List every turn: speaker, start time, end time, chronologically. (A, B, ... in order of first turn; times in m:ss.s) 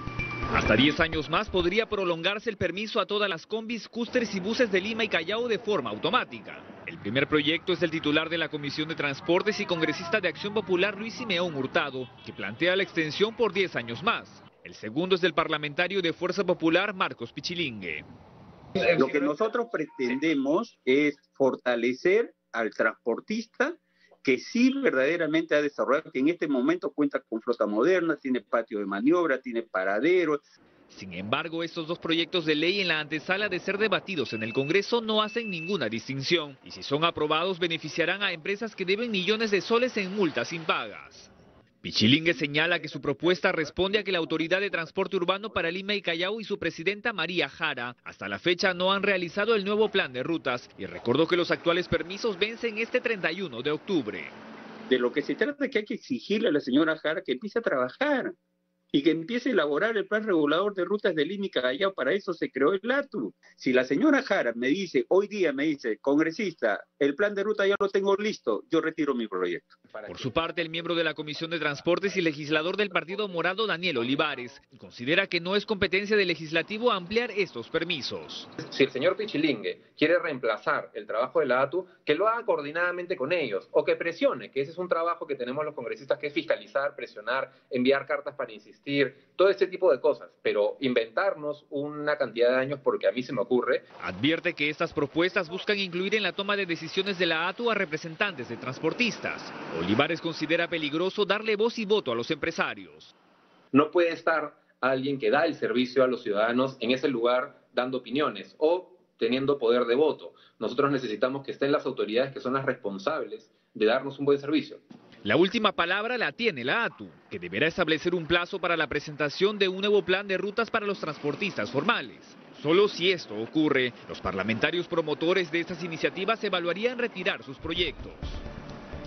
0:00.5-0:18.0 A
0:18.9-0:30.4 B
0:30.9-0:41.3 A
0:41.8-0:54.3 A
0:54.9-0:58.3 B
0:58.9-1:09.7 B
1:09.9-1:10.7 C
1:10.0-1:18.5 A
1:18.6-1:33.8 C
1:34.0-1:43.1 A
1:43.7-1:54.8 C
1:55.2-2:08.4 A